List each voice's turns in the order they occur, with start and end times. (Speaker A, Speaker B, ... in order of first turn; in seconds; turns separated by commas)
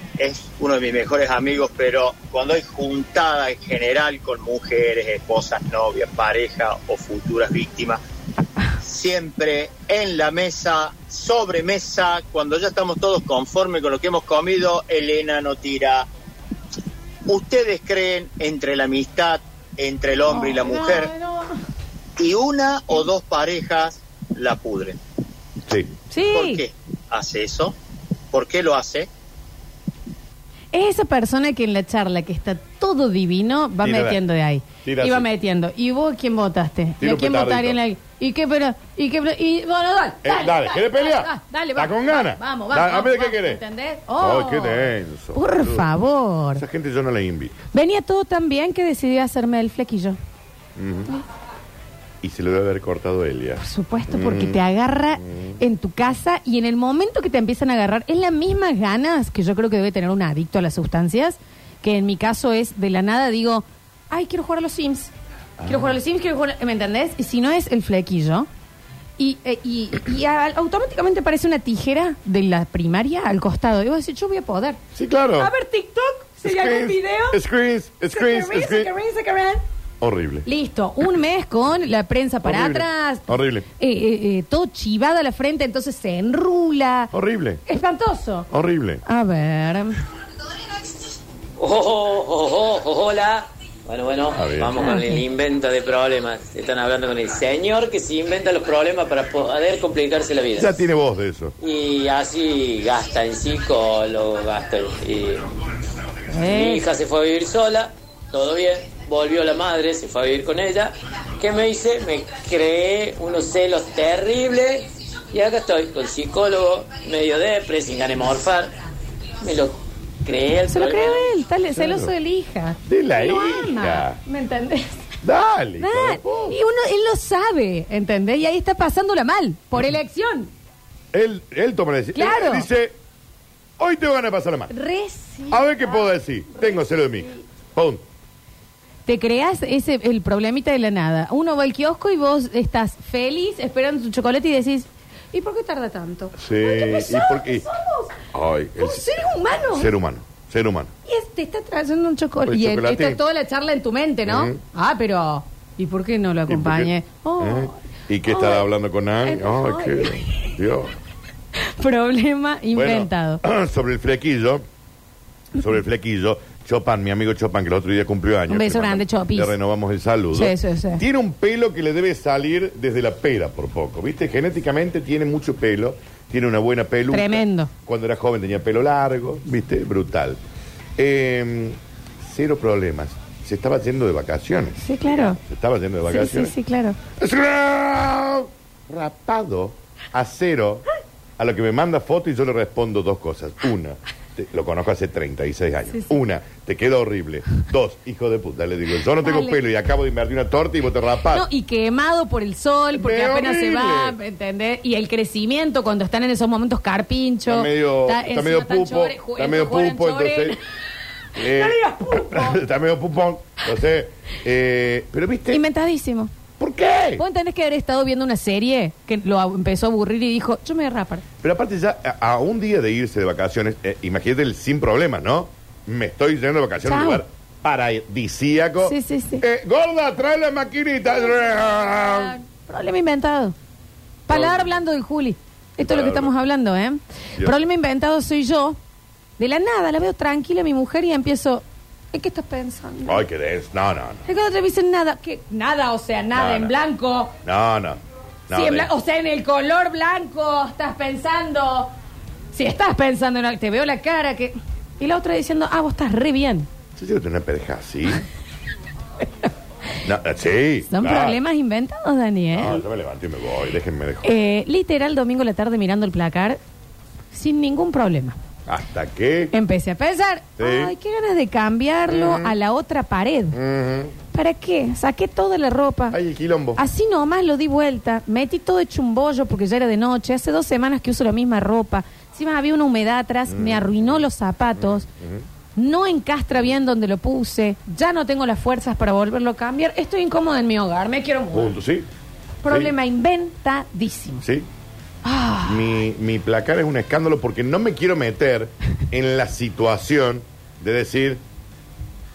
Speaker A: 0.2-8.0, Speaker A: 8.8-16.1, Speaker A: 17.3-21.1, Speaker B: 20.3-21.5, Speaker A: 22.2-25.0, Speaker C: 25.6-25.9, Speaker B: 26.1-26.6, Speaker A: 26.2-27.7, Speaker A: 28.3-29.1, Speaker B: 30.7-46.6, Speaker C: 33.8-34.2, Speaker C: 34.8-35.3, Speaker C: 37.0-37.8, Speaker C: 40.2-43.6, Speaker C: 44.2-45.9, Speaker C: 46.5-47.6, Speaker B: 47.7-50.2, Speaker C: 50.8-51.1, Speaker C: 52.2-54.6, Speaker B: 53.6-65.1, Speaker C: 55.1-55.6, Speaker C: 65.6-66.0, Speaker B: 65.6-68.5, Speaker B: 69.2-74.8, Speaker C: 74.9-75.5, Speaker B: 75.4-77.4, Speaker C: 76.4-78.9, Speaker B: 78.1-79.6, Speaker C: 80.0-80.5, Speaker B: 80.5-87.1, Speaker C: 82.4-83.7, Speaker C: 87.1-87.6, Speaker B: 87.7-88.5, Speaker C: 88.5-89.0, Speaker B: 89.0-90.0, Speaker D: 91.6-100.8, Speaker C: 94.3-94.8, Speaker B: 94.8-95.2, Speaker C: 100.5-101.5, Speaker D: 101.6-105.5, Speaker B: 106.3-106.8, Speaker D: 106.5-118.7, Speaker D: 119.4-121.3, Speaker B: 120.7-125.0, Speaker C: 121.7-122.1, Speaker C: 122.8-124.2, Speaker C: 125.2-126.6, Speaker B: 125.8-130.5, Speaker C: 131.1-132.9, Speaker B: 132.1-132.7, Speaker C: 133.8-134.7, Speaker B: 134.7-137.4, Speaker C: 135.5-138.0, Speaker B: 139.1-148.2, Speaker C: 146.4-147.6, Speaker C: 148.3-150.9, Speaker B: 148.8-149.9, Speaker B: 151.0-158.7, Speaker C: 152.4-153.2, Speaker C: 154.3-154.6, Speaker C: 156.5-160.9, Speaker B: 159.2-160.5, Speaker B: 161.6-163.4, Speaker C: 162.7-164.6, Speaker C: 165.5-180.4, Speaker B: 168.5-169.5, Speaker B: 170.3-171.0, Speaker B: 177.1-177.7, Speaker C: 181.0-186.5, Speaker B: 184.8-185.4, Speaker B: 186.1-187.0, Speaker C: 187.2-190.8, Speaker C: 191.4-201.4, Speaker B: 195.9-196.2, Speaker B: 199.2-199.6, Speaker B: 201.3-210.6, Speaker C: 202.9-204.2, Speaker C: 207.5-210.6, Speaker C: 211.3-215.6, Speaker B: 211.4-212.6, Speaker B: 215.5-216.3, Speaker C: 216.6-217.2, Speaker B: 217.2-221.2, Speaker C: 221.4-232.3, Speaker B: 226.8-227.2, Speaker B: 228.8-229.4, Speaker B: 231.1-233.5, Speaker B: 234.3-238.8, Speaker C: 234.3-234.8, Speaker C: 235.8-236.3, Speaker C: 237.4-237.6, Speaker B: 239.4-243.2, Speaker C: 243.1-244.2, Speaker B: 244.2-247.3, Speaker C: 246.3-246.7, Speaker C: 247.4-248.9, Speaker B: 248.5-251.9, Speaker B: 252.5-256.7, Speaker C: 256.9-258.2, Speaker C: 260.0-261.4, Speaker B: 260.9-262.8, Speaker C: 262.5-264.3, Speaker B: 264.2-266.6, Speaker B: 267.3-268.4, Speaker C: 268.7-269.5, Speaker B: 269.5-273.6, Speaker C: 270.6-270.9, Speaker C: 272.1-272.5, Speaker C: 273.5-274.1, Speaker B: 274.3-276.2, Speaker C: 276.1-276.8, Speaker B: 276.8-285.1, Speaker C: 283.5-284.2, Speaker C: 284.8-285.4, Speaker B: 285.8-291.8, Speaker C: 291.5-292.1, Speaker B: 292.6-294.4, Speaker C: 292.7-292.9, Speaker C: 294.4-294.7, Speaker B: 295.2-296.0, Speaker C: 295.6-301.4